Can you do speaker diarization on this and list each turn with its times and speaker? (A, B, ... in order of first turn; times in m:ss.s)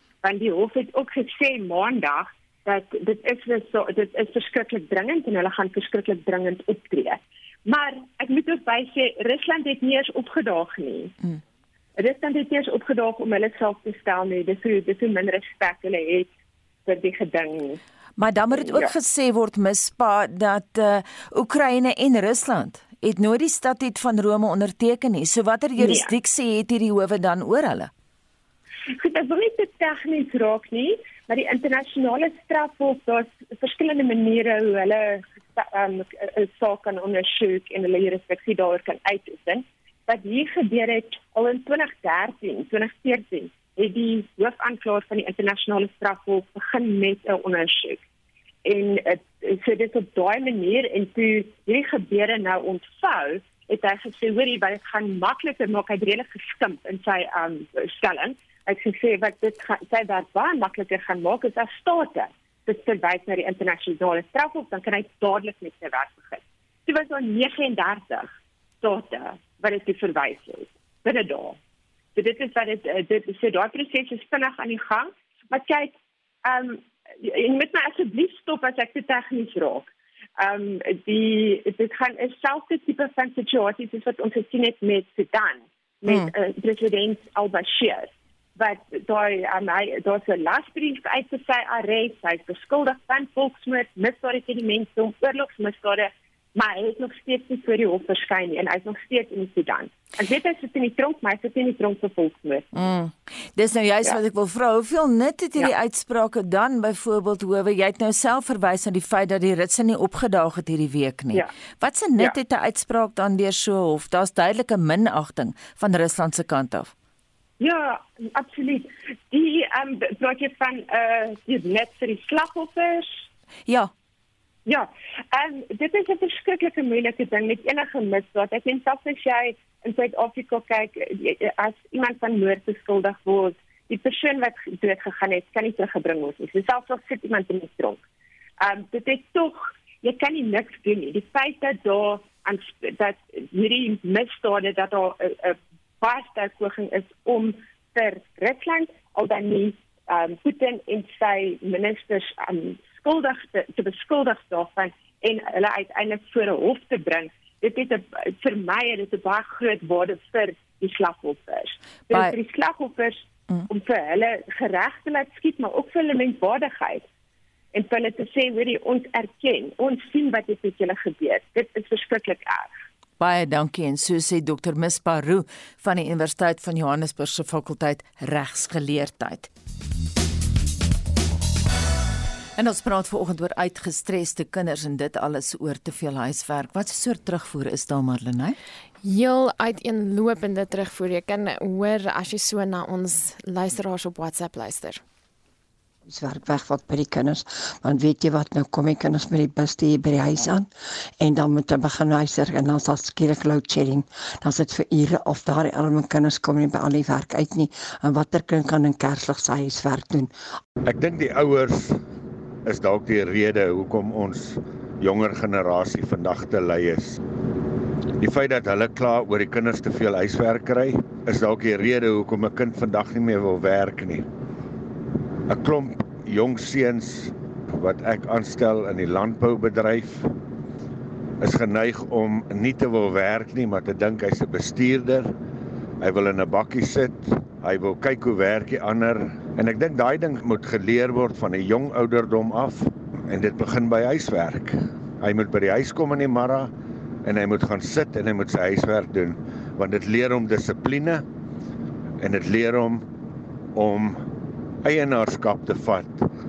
0:00.2-0:11.1 A
0:12.0-0:16.3 A
0:16.8-0:17.8 A
0:18.2-0:27.9 B
0:18.5-0:18.9 A
0:25.8-0:26.1 A
0:29.0-0:48.0 A
0:48.6-1:08.3 A
1:08.8-1:11.6 A
1:12.1-1:42.6 A
1:42.7-1:56.9 B
1:57.6-2:03.2 A
2:04.6-2:18.0 A
2:18.6-2:47.0 A
2:42.1-2:42.4 B
2:47.7-2:52.7 A
2:53.2-2:59.5 B
3:02.6-3:08.6 B
3:09.0-3:15.0 C
3:16.1-3:30.3 D
3:30.8-3:32.0 E
3:32.6-3:37.2 E
3:38.2-3:44.2 E
3:45.5-3:50.3 E
3:51.4-3:55.3 E
3:56.0-4:06.7 E
4:07.2-4:11.2 E
4:12.2-4:13.1 E
4:13.7-4:14.2 E
4:14.8-4:16.3 E